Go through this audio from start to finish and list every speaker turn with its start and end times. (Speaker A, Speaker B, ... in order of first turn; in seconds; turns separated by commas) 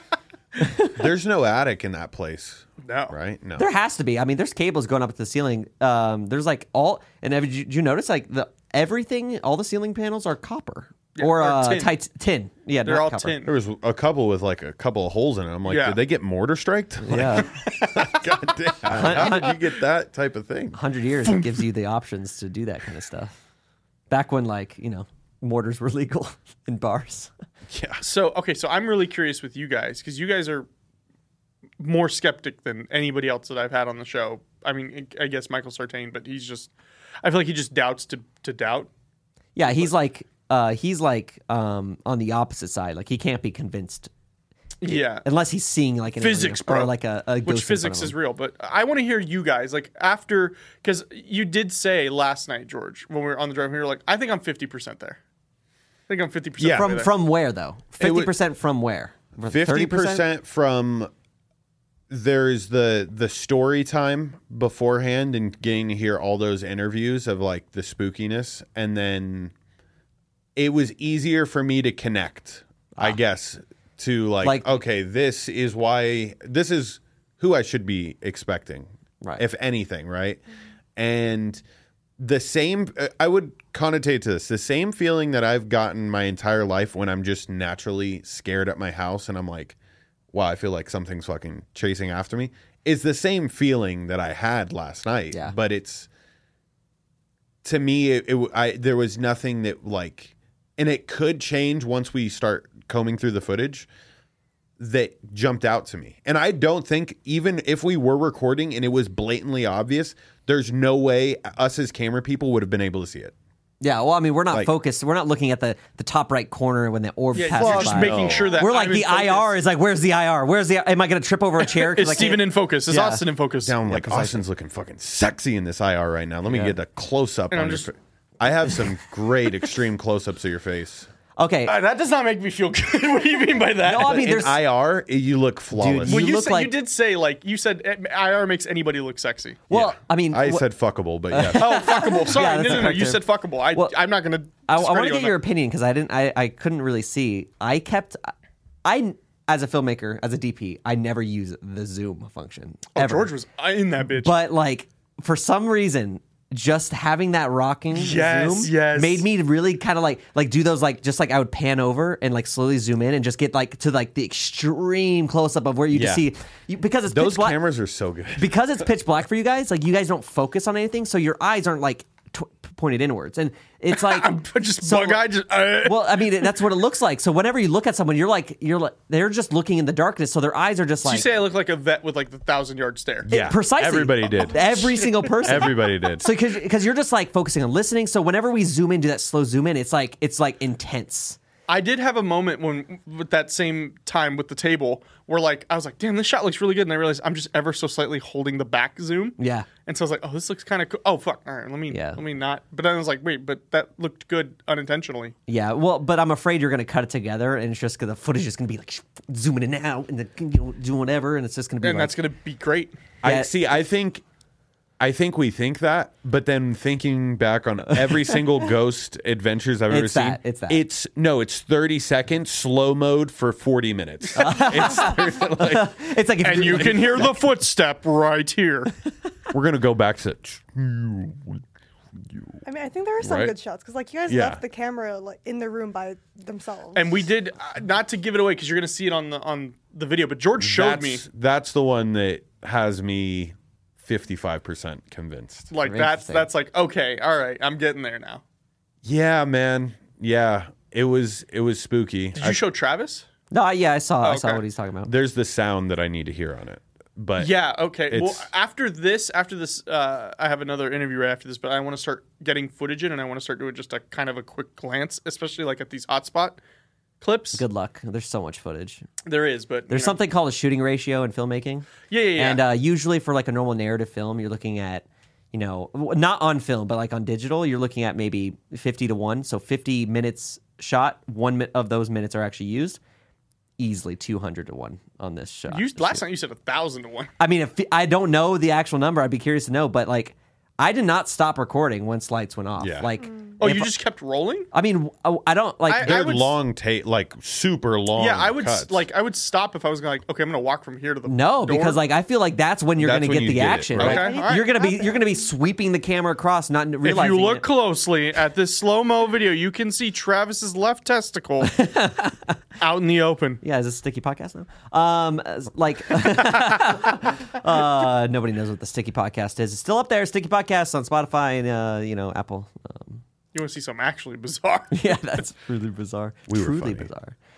Speaker A: 0.6-1.0, Speaker B: 0.9-3.7, Speaker C: 2.8-3.1, Speaker A: 3.6-13.3, Speaker C: 11.2-11.9, Speaker C: 12.8-13.5, Speaker B: 13.4-20.8, Speaker C: 15.7-16.0, Speaker A: 17.0-17.5, Speaker C: 17.4-18.2, Speaker A: 18.9-19.5, Speaker A: 20.7-23.4, Speaker C: 21.2-21.6, Speaker A: 24.1-27.3, Speaker B: 27.7-28.0, Speaker C: 28.0-30.7, Speaker C: 31.8-36.7, Speaker C: 37.2-38.9, Speaker A: 39.6-44.1, Speaker C: 44.8-45.2, Speaker A: 44.9-48.1, Speaker C: 46.2-46.9, Speaker C: 47.5-55.2, Speaker C: 56.1-57.1, Speaker B: 56.6-56.9, Speaker A: 56.7-60.2, Speaker B: 58.0-58.3, Speaker B: 59.4-61.1, Speaker B: 62.1-69.5, Speaker B: 70.6-80.4, Speaker A: 74.4-74.8, Speaker B: 81.0-81.6, Speaker B: 82.2-89.8, Speaker B: 90.3-96.1, Speaker B: 97.6-103.9, Speaker B: 104.8-113.3, Speaker A: 113.8-123.2, Speaker C: 117.3-119.5, Speaker B: 117.4-118.5, Speaker D: 118.3-118.6, Speaker C: 121.7-124.3, Speaker B: 123.6-131.1, Speaker A: 126.5-126.8, Speaker C: 127.5-127.9, Speaker A: 131.4-131.7, Speaker C: 131.7-134.2, Speaker A: 133.8-134.6, Speaker B: 133.9-136.2, Speaker A: 135.7-136.7, Speaker C: 136.1-139.6, Speaker A: 139.7-140.7, Speaker B: 139.7-142.2, Speaker A: 141.3-143.9, Speaker C: 141.6-145.4, Speaker A: 144.7-153.3, Speaker C: 153.0-154.3, Speaker A: 154.2-167.6, Speaker C: 157.9-159.3, Speaker B: 165.9-166.2, Speaker B: 167.1-168.5, Speaker A: 168.4-181.3, Speaker C: 173.9-176.6, Speaker C: 181.0-183.3, Speaker B: 183.2-184.7, Speaker A: 183.3-191.4, Speaker C: 184.7-185.6, Speaker B: 185.4-186.3, Speaker C: 191.7-205.3, Speaker A: 199.4-199.7, Speaker A: 201.9-202.2, Speaker A: 205.5-212.2, Speaker C: 211.8-213.0, Speaker B: 213.2-214.2, Speaker A: 213.2-213.5, Speaker B: 215.0-225.9, Speaker A: 219.9-220.8, Speaker A: 224.4-227.3, Speaker C: 226.4-228.9, Speaker B: 226.6-227.3, Speaker B: 229.5-231.6, Speaker B: 232.2-232.6, Speaker D: 232.7-237.2, Speaker B: 233.2-233.6, Speaker B: 234.3-234.6, Speaker C: 236.9-241.2, Speaker B: 240.6-245.7, Speaker C: 245.7-248.4, Speaker A: 245.8-246.5, Speaker B: 249.0-252.6, Speaker C: 252.3-253.3, Speaker A: 253.5-255.1, Speaker C: 254.2-254.6, Speaker B: 255.1-257.5, Speaker C: 257.4-266.6, Speaker B: 258.1-258.4, Speaker C: 267.2-267.6, Speaker A: 267.5-269.1, Speaker C: 269.2-270.2, Speaker A: 269.9-283.0, Speaker C: 272.1-272.6, Speaker A: 283.8-286.2, Speaker C: 285.7-287.3, Speaker A: 287.4-293.9, Speaker B: 292.8-293.1, Speaker D: 293.2-293.5, Speaker C: 293.6-294.7, Speaker A: 294.7-296.3, Speaker C: 295.9-296.5, Speaker B: 296.0-299.0, Speaker C: 298.2-302.0, Speaker A: 301.2-307.6, Speaker B: 303.0-304.3, Speaker C: 304.0-304.7, Speaker D: 304.0-305.5, Speaker C: 307.0-311.8, Speaker A: 311.7-312.6, Speaker C: 312.8-313.6, Speaker A: 313.6-323.2, Speaker C: 316.4-317.2, Speaker C: 323.5-325.4, Speaker A: 324.9-327.4, Speaker B: 326.5-327.1